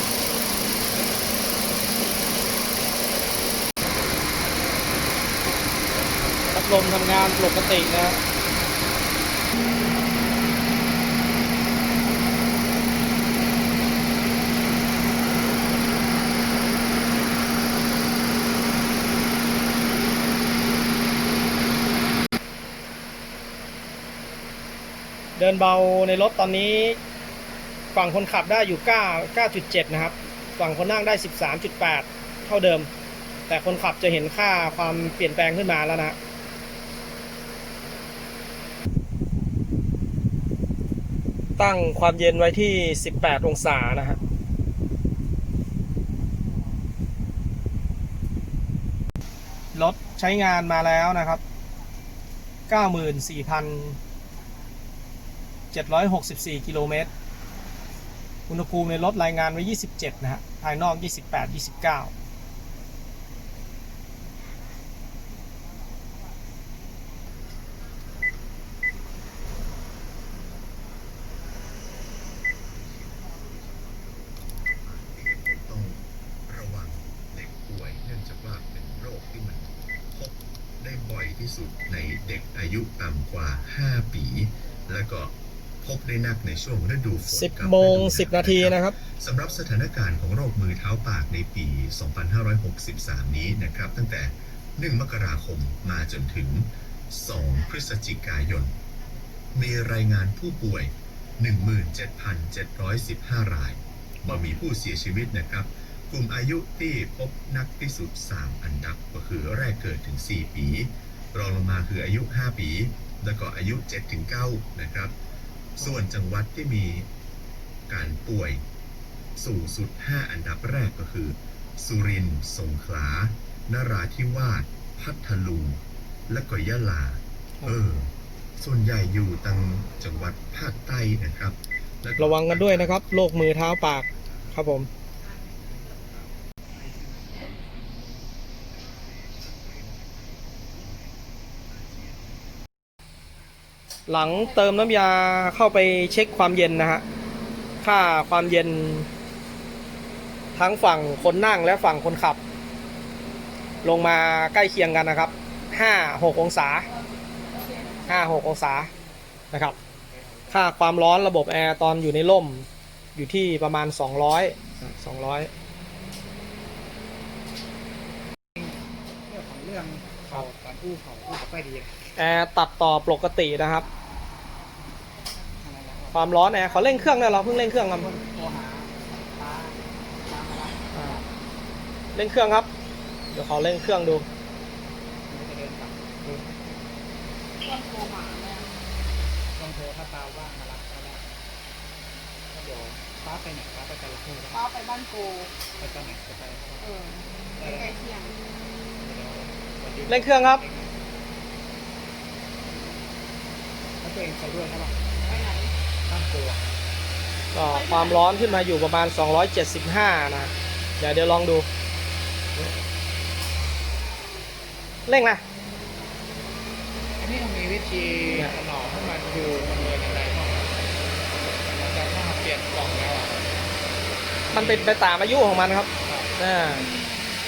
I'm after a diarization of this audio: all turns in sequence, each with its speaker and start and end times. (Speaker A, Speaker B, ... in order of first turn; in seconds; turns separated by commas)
Speaker A: 6.5-8.2, Speaker A: 25.4-27.0, Speaker A: 27.9-32.9, Speaker A: 33.5-36.2, Speaker A: 41.6-44.2, Speaker A: 49.7-51.4, Speaker A: 52.7-54.0, Speaker A: 55.7-57.1, Speaker A: 58.5-62.1, Speaker B: 72.9-98.8, Speaker A: 87.3-89.0, Speaker B: 99.5-115.2, Speaker B: 115.8-117.1, Speaker B: 117.9-118.6, Speaker B: 119.4-133.6, Speaker A: 132.2-134.9, Speaker A: 144.1-147.0, Speaker A: 147.8-149.1, Speaker A: 150.6-152.4, Speaker A: 153.8-156.9, Speaker C: 157.5-158.4, Speaker A: 158.1-158.9, Speaker A: 159.5-159.8, Speaker D: 160.1-160.5, Speaker A: 160.5-165.5, Speaker D: 168.6-171.9, Speaker A: 172.2-173.9, Speaker D: 175.6-181.3, Speaker A: 176.1-178.1, Speaker A: 182.1-182.7, Speaker A: 183.3-184.3, Speaker D: 185.3-186.0, Speaker C: 187.6-188.7, Speaker D: 189.6-191.2, Speaker D: 192.5-194.6, Speaker C: 194.5-195.5, Speaker D: 195.8-196.9, Speaker C: 196.8-198.4, Speaker D: 197.6-197.9, Speaker D: 199.0-200.9, Speaker A: 200.1-200.6, Speaker D: 204.0-205.0, Speaker C: 205.2-205.7, Speaker D: 206.1-206.6, Speaker A: 207.5-211.7, Speaker C: 207.7-208.7, Speaker A: 215.1-215.4, Speaker D: 217.2-220.8, Speaker D: 221.5-223.4, Speaker A: 224.5-226.8, Speaker D: 226.1-226.3